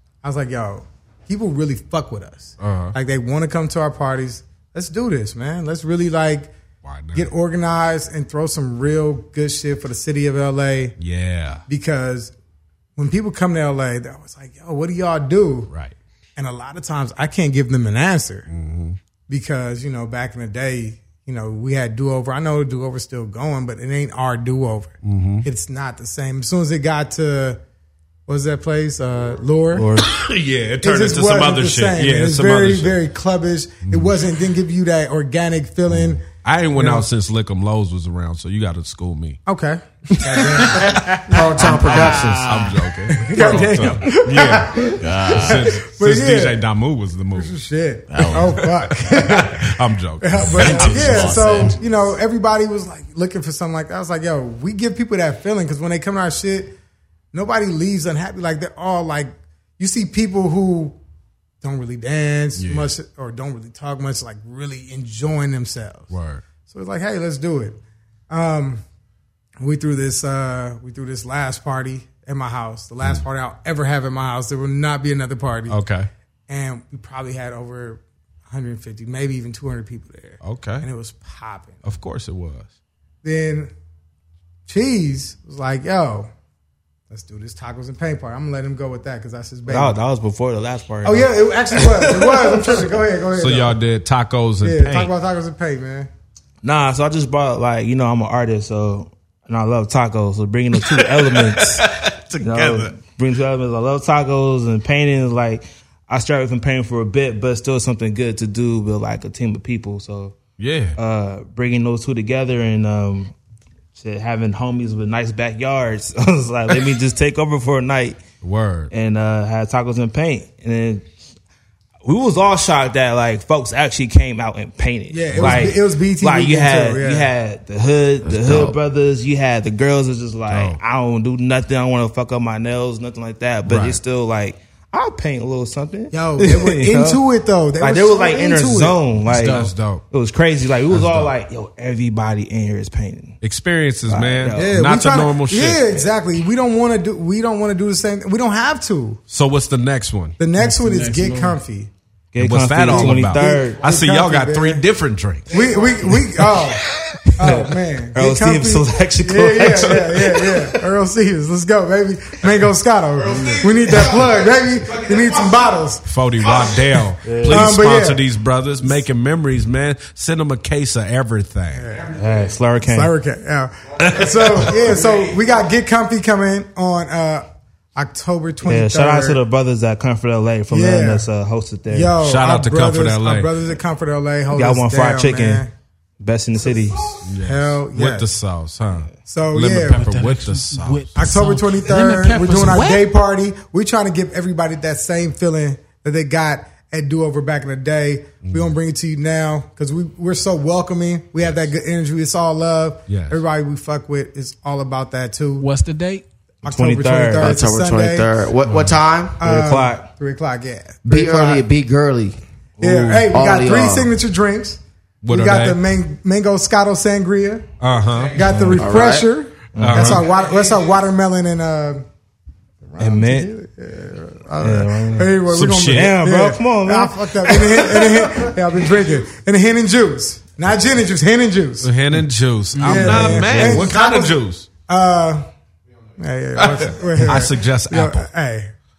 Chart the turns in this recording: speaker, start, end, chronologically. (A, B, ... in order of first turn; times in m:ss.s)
0:00.2-0:06.5 A
0:02.6-0:03.0 B
0:06.8-0:07.3 B
0:07.1-0:11.0 A
0:11.0-0:11.6 B
0:11.7-0:12.3 A
0:13.0-0:15.7 A
0:16.4-0:18.5 A
0:18.5-0:19.0 B
0:19.3-0:27.6 A
0:25.0-0:25.4 B
0:28.3-0:29.9 A
0:29.7-0:30.1 C
0:30.0-0:33.0 B
0:30.8-0:36.2 A
0:33.9-0:34.1 B
0:35.9-0:39.4 B
0:36.7-0:37.1 A
0:39.4-0:42.3 A
0:40.1-0:41.2 B
0:40.6-0:42.8 D
0:41.3-0:42.7 E
0:42.0-0:47.6 B
0:43.1-0:46.6 A
0:45.0-0:45.7 D
0:47.3-0:56.8 A
0:48.1-0:48.6 D
0:48.4-0:51.6 B
0:50.4-0:51.8 D
0:57.3-1:01.0 A
1:01.6-1:06.1 A
1:02.6-1:02.9 B
1:06.1-1:06.4 B
1:06.7-1:07.8 A
1:08.3-1:08.8 A
1:09.6-1:15.8 A
1:15.7-1:16.1 B
1:16.5-1:21.8 A
1:20.4-1:20.8 B
1:21.8-1:22.7 B
1:23.2-1:23.7 A
1:24.7-1:26.3 A
1:27.1-1:30.0 A
1:29.7-1:32.9 C
1:31.0-1:33.8 A
1:33.4-1:35.1 B
1:34.6-1:36.1 A
1:36.6-1:41.9 C
1:40.8-1:43.0 B
1:42.4-1:50.3 C
1:50.6-1:51.0 B
1:51.0-1:53.3 C
1:53.9-1:58.2 C
1:58.4-1:58.9 B
1:58.9-2:01.1 C
2:02.0-2:17.2 C
2:05.1-2:07.3 A
2:05.3-2:05.7 B
2:08.2-2:08.8 E
2:10.5-2:10.8 B
2:13.6-2:14.0 B
2:16.1-2:19.0 A
2:17.8-2:23.4 C
2:19.2-2:19.7 D
2:19.3-2:20.0 B
2:20.9-2:21.3 B
2:23.4-2:25.9 B
2:24.0-2:24.8 C
2:24.5-2:29.2 A
2:29.3-2:30.4 B
2:30.4-2:31.9 A
2:30.6-2:31.6 D
2:32.3-2:33.8 C
2:32.4-2:35.6 B
2:32.8-2:34.8 A
2:35.5-2:36.8 A
2:37.2-2:40.7 C
2:37.4-2:46.7 A
2:43.4-2:43.6 C
2:46.0-2:51.9 B
2:47.2-2:47.7 C
2:47.4-2:48.3 A
2:51.7-2:52.1 A
2:52.1-2:53.1 C
2:52.8-2:59.4 A
2:54.0-2:55.1 B
2:58.6-3:02.1 C
3:00.7-3:01.3 A
3:01.9-3:05.7 A
3:02.2-3:03.5 B
3:04.5-3:05.6 C
3:06.2-3:07.2 C
3:07.2-3:11.1 B
3:07.4-3:08.3 A
3:09.2-3:10.1 A
3:09.8-3:13.1 D
3:11.2-3:25.6 A
3:18.4-3:18.7 B
3:23.1-3:23.4 B
3:25.6-3:26.2 D
3:26.6-3:28.3 A
3:26.6-3:27.5 C
3:27.4-3:29.4 E
3:28.6-3:28.9 D
3:29.4-3:31.6 A
3:29.4-3:30.1 C
3:31.0-3:32.4 E
3:32.8-3:33.2 C
3:32.8-3:37.7 A
3:33.3-3:34.1 E
3:35.2-3:35.8 B
3:37.8-3:38.5 B
3:38.3-3:42.0 A
3:38.7-3:39.2 E
3:39.7-3:40.2 C
3:39.8-3:40.2 B
3:42.8-3:51.9 A
3:43.0-3:43.5 C
3:44.6-3:45.4 C
3:45.4-3:46.2 B
3:45.9-3:48.5 C
3:51.8-3:54.7 B
3:52.7-3:53.4 D
3:52.8-3:55.4 A
3:53.2-3:53.9 C
3:56.2-3:58.7 A
3:56.6-3:58.2 B